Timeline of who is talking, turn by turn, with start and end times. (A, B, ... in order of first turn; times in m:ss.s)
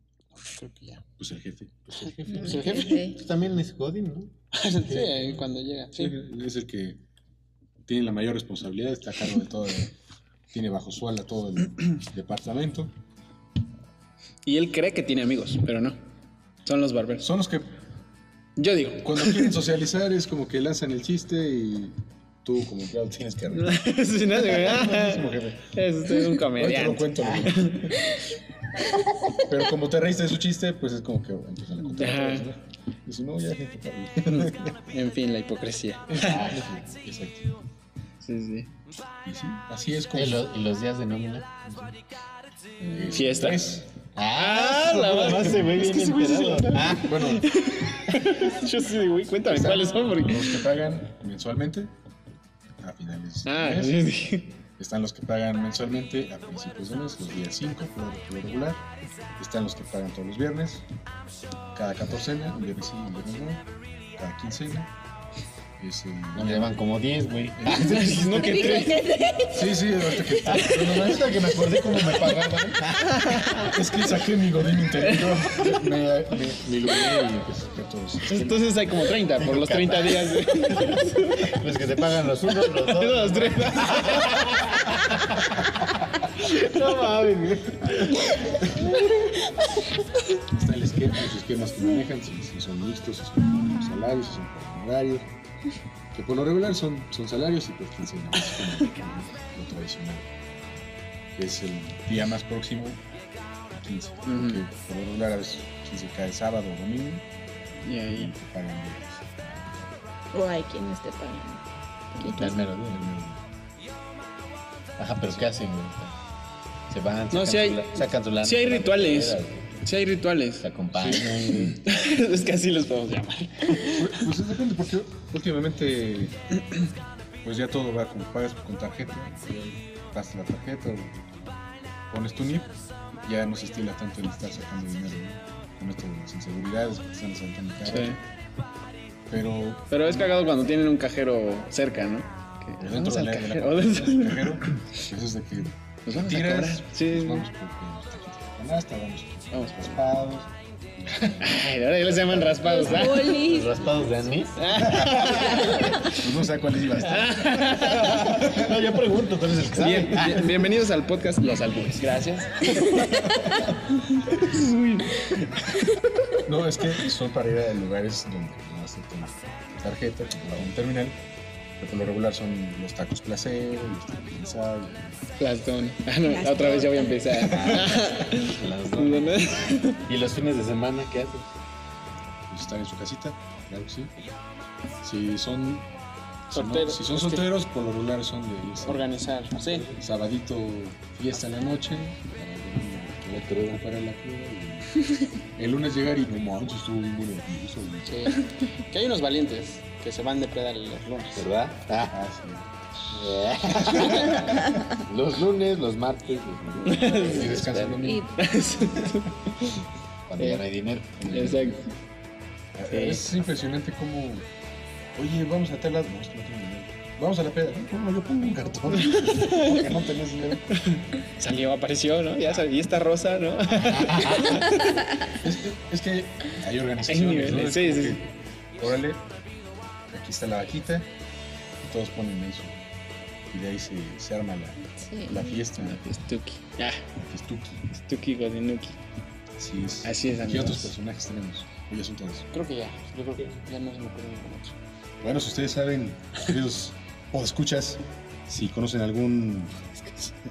0:00.3-0:01.0 A
0:01.2-0:01.8 B
0:01.9-0:04.3 C
0:02.3-0:03.2 D
0:02.3-0:03.0 A
0:04.5-0:06.2 A
0:04.8-0:05.4 C
0:05.9-0:07.0 B
0:07.9-0:09.9 B
0:10.5-0:12.9 B
0:14.4-0:16.0 A
0:16.6-0:17.3 A
0:17.2-0:17.7 B
0:18.6-0:19.6 A
0:19.0-0:23.7 B
0:23.5-0:28.0 A
0:24.3-0:25.7 B
0:26.4-0:28.0 B
0:29.4-0:34.8 B
0:31.9-0:32.5 A
0:34.3-0:36.4 A
0:36.1-0:37.5 B
0:36.2-0:36.7 C
0:38.2-0:38.7 A
0:39.2-0:40.4 B
0:40.1-0:41.9 C
0:42.8-0:43.8 B
0:43.0-0:43.8 A
0:44.1-0:47.2 C
0:44.3-0:50.6 A
0:47.0-0:47.5 B
0:49.5-0:51.9 B
0:52.8-0:54.0 B
0:53.4-0:54.6 A
0:54.8-1:00.8 B
1:01.7-1:04.9 B
1:05.8-1:06.8 B
1:06.3-1:09.0 C
1:07.5-1:08.2 B
1:07.7-1:09.1 A
1:08.4-1:10.2 D
1:09.5-1:12.0 B
1:10.3-1:13.7 C
1:13.1-1:13.8 A
1:13.6-1:18.5 B
1:15.0-1:15.4 A
1:18.2-1:21.6 A
1:19.4-1:25.6 C
1:22.4-1:24.8 A
1:26.2-1:28.4 C
1:30.5-1:35.3 B
1:36.1-1:40.3 B
1:41.3-1:43.0 B
1:43.7-1:47.3 B
1:44.2-1:44.6 A
1:47.8-1:48.3 A
1:48.1-1:49.9 B
1:50.3-1:51.6 D
1:52.1-1:52.5 D
1:52.2-1:53.4 B
1:52.2-1:53.1 C
1:55.0-1:56.1 C
1:56.9-1:59.8 C
1:57.3-2:00.6 A
2:00.6-2:01.8 C
2:00.9-2:01.8 B
2:01.5-2:04.3 A
2:03.9-2:06.4 B
2:07.4-2:11.5 B
2:12.1-2:18.2 B
2:17.9-2:18.2 A
2:19.3-2:20.3 B
2:19.9-2:25.0 A
2:22.8-2:31.4 B
2:26.0-2:27.5 A
2:29.5-2:29.9 A
2:31.4-2:33.5 A
2:32.3-2:35.9 C
2:32.6-2:33.9 D
2:34.6-2:36.2 A
2:34.8-2:38.8 B
2:37.0-2:38.5 A
2:37.4-2:40.6 C
2:39.7-2:46.0 A
2:46.4-2:51.2 B
2:51.8-2:55.2 B
2:55.4-3:00.0 A
2:56.2-2:57.5 D
2:57.3-2:58.0 B
2:57.4-3:01.6 C
3:02.5-3:04.1 B
3:05.0-3:05.9 B
3:06.5-3:09.1 B
3:06.5-3:07.5 A
3:08.8-3:09.9 A
3:09.6-3:09.9 C
3:09.9-3:18.3 B
3:13.3-3:13.8 C
3:18.1-3:21.5 A
3:21.4-3:22.2 C
3:22.1-3:22.7 B
3:23.1-3:28.0 C
3:23.8-3:24.6 B
3:26.8-3:27.8 A
3:26.9-3:28.4 B
3:27.9-3:28.4 D
3:28.3-3:29.8 A
3:30.3-3:31.8 C
3:31.2-3:31.7 B
3:31.3-3:31.9 A
3:32.7-3:34.4 B
3:32.9-3:33.2 A
3:35.1-3:40.7 B
3:39.0-3:39.9 A
3:40.7-3:45.2 A
3:44.0-3:44.6 C
3:45.3-3:49.3 B
3:47.1-3:48.2 A
3:50.1-3:51.1 B
3:51.8-3:52.8 B
3:53.5-3:56.0 B
3:55.0-3:55.6 D
3:55.8-3:57.0 A
3:57.1-3:57.8 B
3:57.9-3:59.0 A
3:59.6-4:02.5 B
4:00.0-4:00.9 A
4:02.5-4:04.7 A
4:05.2-4:10.3 B